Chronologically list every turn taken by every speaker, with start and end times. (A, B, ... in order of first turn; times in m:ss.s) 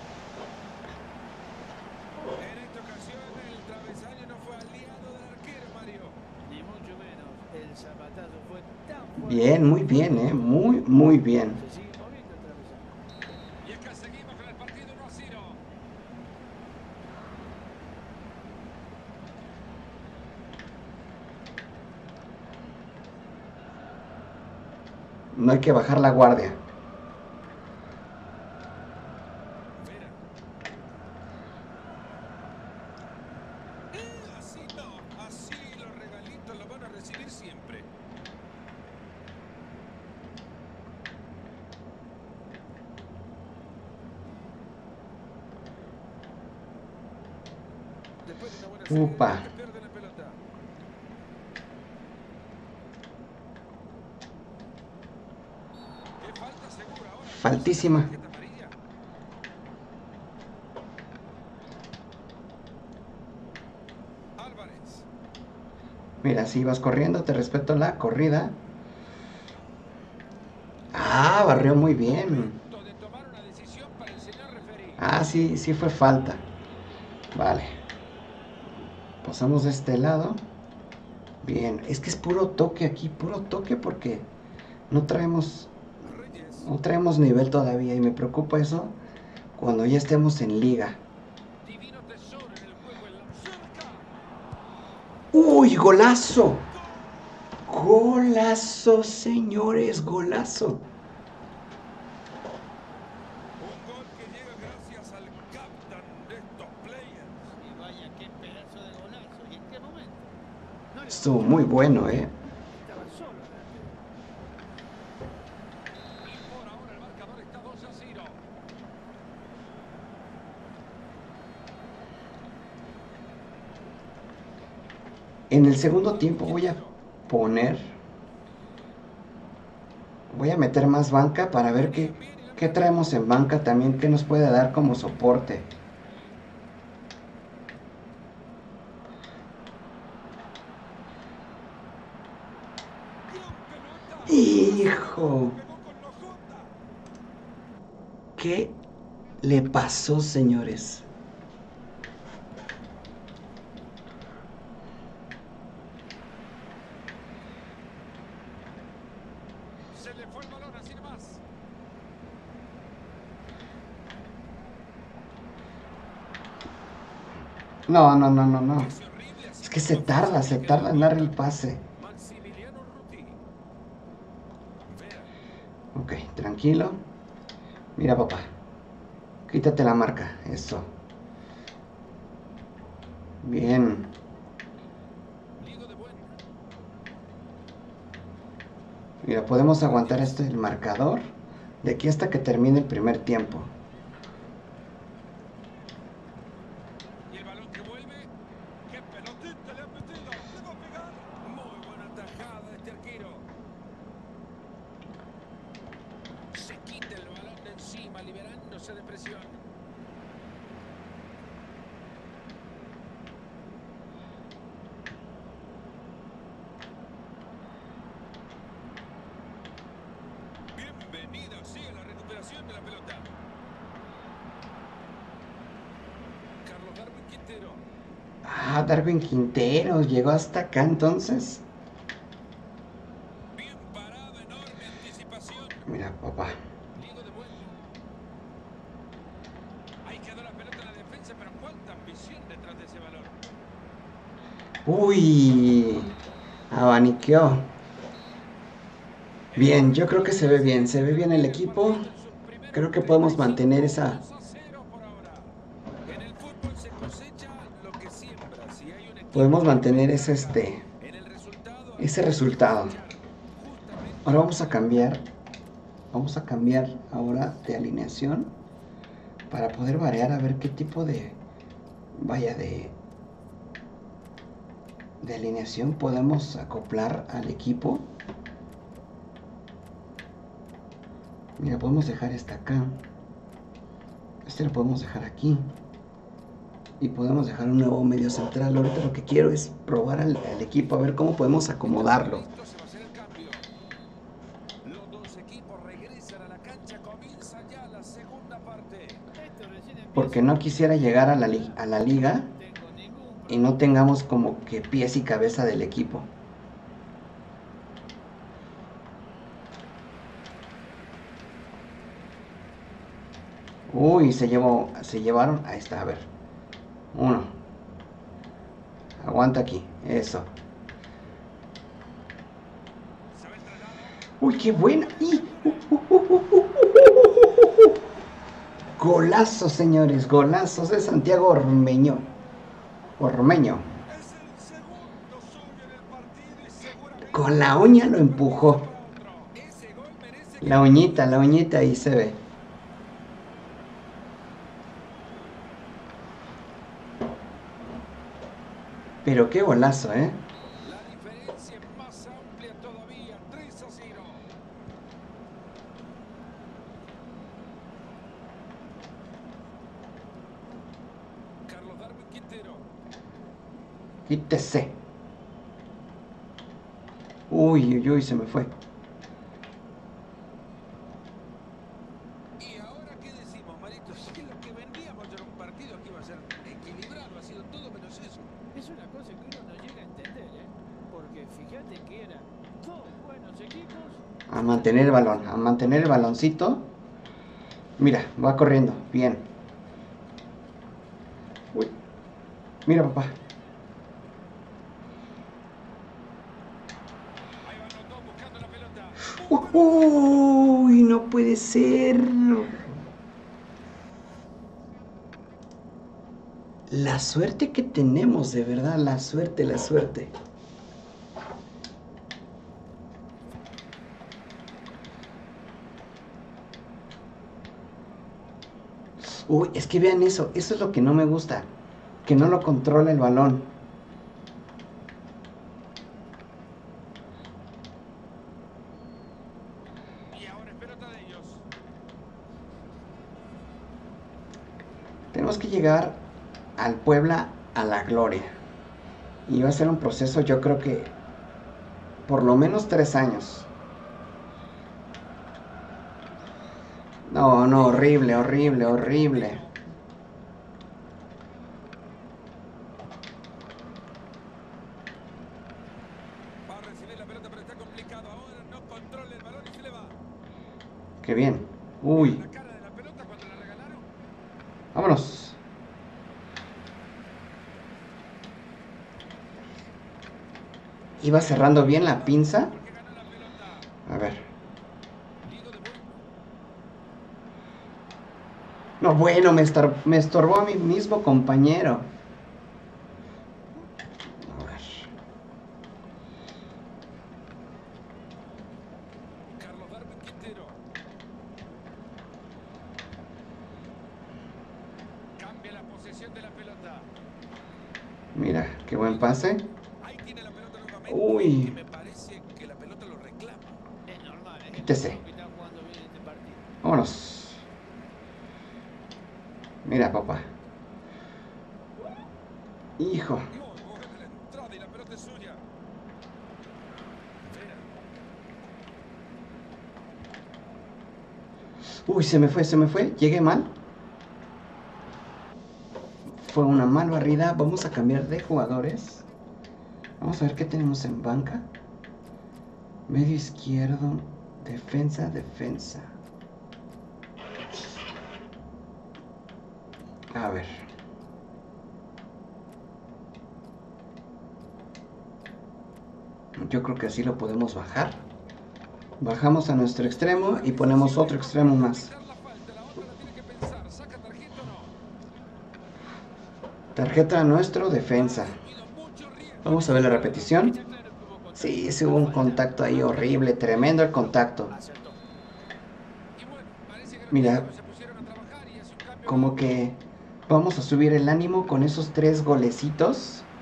0:02.3-0:06.2 A
0:06.4-0:10.7 B
0:09.2-0:11.6 C
0:11.6-0:12.9 B
0:13.6-0:15.6 A
0:25.3-0:26.6 C
0:29.8-0:30.2 A
0:33.9-0:37.9 A
0:48.2-0:50.4 A
0:48.9-0:49.5 C
0:56.2-0:58.8 A
0:57.3-0:58.1 C
1:04.4-1:05.1 A
1:06.2-1:08.6 C
1:10.9-1:12.6 C
1:12.3-1:15.0 A
1:15.0-1:16.4 C
1:17.3-1:17.7 C
1:19.2-1:20.4 C
1:21.4-1:24.3 C
1:24.9-1:25.7 C
1:26.0-1:26.7 A
1:26.5-1:29.0 C
1:29.6-1:31.0 C
1:31.6-1:34.1 A
1:35.3-1:36.7 C
1:37.7-1:40.9 C
1:43.6-1:47.5 A
1:47.5-1:50.4 B
1:50.9-1:51.7 B
1:51.1-1:52.4 C
1:52.8-1:53.9 B
1:56.2-1:58.4 A
2:05.5-2:08.0 C
2:05.9-2:07.0 A
2:10.3-2:15.7 C
2:11.8-2:13.1 A
2:23.3-2:26.7 A
2:24.3-2:25.6 C
2:28.4-2:28.8 C
2:29.4-2:31.1 C
2:39.9-2:41.4 A
2:47.9-2:49.0 C
2:48.8-2:51.4 A
2:49.6-2:51.9 C
2:52.0-2:53.4 A
2:54.9-2:55.3 A
2:55.9-2:57.0 C
2:58.0-2:58.5 C
2:59.5-3:00.9 C
3:03.4-3:04.1 C
3:05.6-3:06.3 A
3:09.2-3:11.2 C
3:09.9-3:10.3 A
3:11.8-3:13.7 C
3:17.3-3:18.3 A
3:18.8-3:23.5 A
3:26.5-3:29.6 A
3:40.7-3:43.3 A
3:46.6-3:47.8 A
3:48.4-3:51.6 C
3:53.5-3:55.9 A
3:55.8-3:56.6 C
3:56.9-3:57.8 A
4:00.0-4:03.4 A
4:04.8-4:06.1 C
4:06.7-4:07.7 C
4:09.5-4:24.5 A
4:09.5-4:12.1 C
4:12.7-4:14.2 C
4:19.3-4:20.9 C
4:22.0-4:23.0 C
4:24.2-4:25.3 C
4:26.1-4:28.6 C
4:29.5-4:31.4 C
4:32.1-4:33.0 C
4:35.2-4:38.1 C
4:41.6-4:43.0 C
4:44.4-4:45.7 C
4:47.0-4:52.4 C
4:51.8-4:53.7 A
4:54.8-4:59.2 A
4:59.3-5:00.9 B
5:00.1-5:02.5 C
5:02.5-5:03.7 B
5:03.5-5:06.3 C
5:13.9-5:16.3 C
5:17.1-5:17.6 C
5:19.2-5:20.5 C
5:23.3-5:25.9 A
5:24.4-5:27.9 C
5:29.0-5:32.3 C
5:33.2-5:33.9 C
5:34.0-5:41.2 A
5:37.3-5:38.9 C
5:40.6-5:42.4 C
5:49.2-5:50.4 C
5:50.8-5:54.5 A
6:01.7-6:02.9 A
6:04.3-6:05.0 C
6:07.5-6:08.7 C
6:12.6-6:18.5 A
6:18.7-6:25.3 B
6:24.5-6:26.9 C
6:28.0-6:29.5 C
6:32.9-6:33.4 C
6:37.6-6:39.9 A
6:39.3-6:42.9 C
6:46.9-6:50.3 C
6:59.2-7:01.7 C
7:02.2-7:03.7 C
7:10.3-7:11.7 A
7:15.3-7:16.2 C
7:16.8-7:18.5 C
7:19.5-7:21.2 C
7:22.3-7:23.7 C
7:27.3-7:29.6 C
7:28.4-7:29.8 A
7:36.6-7:40.2 A
7:41.2-7:42.4 C
7:42.1-7:44.1 A
7:44.9-7:45.6 C
7:51.2-7:52.8 C
7:51.5-7:53.9 A
7:54.1-7:54.5 C
7:55.4-7:56.2 A
7:59.0-8:02.1 C
8:04.4-8:05.1 C
8:09.5-8:10.8 A
8:15.4-8:17.1 A
8:18.4-8:19.7 C
8:20.0-8:23.8 A
8:21.1-8:21.8 C
8:24.1-8:26.7 B
8:24.7-8:25.2 C
8:26.8-8:27.6 C
8:29.8-8:30.5 C
8:33.0-8:33.5 C
8:33.5-8:35.6 A
8:37.4-8:37.9 A
8:42.1-8:43.7 C
8:46.3-8:49.3 C
8:50.2-8:51.7 C
8:53.1-8:56.2 C
9:00.3-9:00.9 C
9:06.6-9:08.2 C
9:09.2-9:12.1 C
9:10.3-9:14.9 A
9:16.9-9:18.6 C
9:18.1-9:21.5 A
9:19.6-9:20.8 C
9:21.6-9:22.0 B
9:21.6-9:24.7 C
9:22.0-9:23.4 A
9:24.7-9:25.2 B
9:26.4-9:29.6 A
9:27.3-9:27.7 C
9:29.2-9:33.5 C